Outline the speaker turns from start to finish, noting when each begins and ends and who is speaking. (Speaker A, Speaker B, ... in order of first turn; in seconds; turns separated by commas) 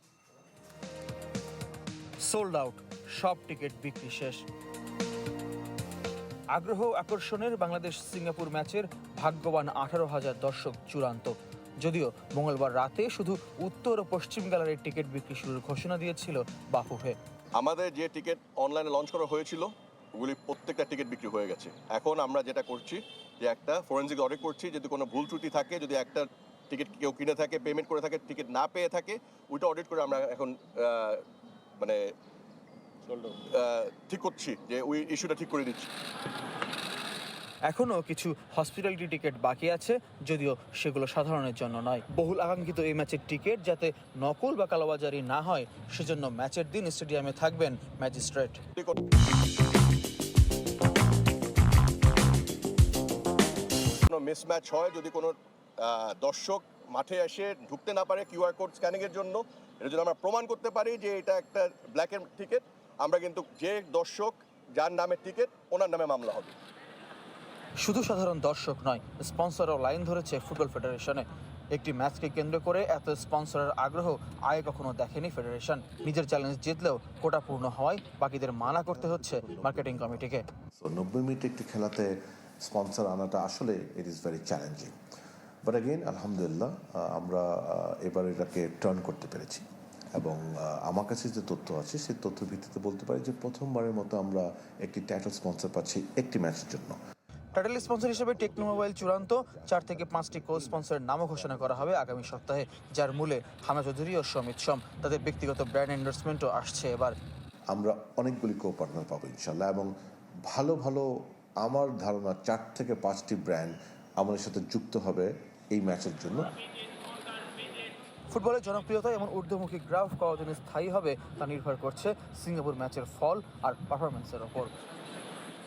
Speaker A: 2.2-4.5, Speaker A: 6.5-17.2, Speaker B: 17.6-31.2, Speaker B: 33.1-35.9, Speaker A: 37.7-48.6, Speaker B: 54.1-66.5, Speaker A: 67.8-80.5, Speaker C: 78.6-84.9, Speaker C: 85.6-97.0, Speaker A: 97.5-107.2, Speaker C: 97.6-102.8, Speaker C: 107.7-109.9, Speaker C: 110.5-111.1, Speaker C: 111.6-116.5, Speaker A: 118.3-124.7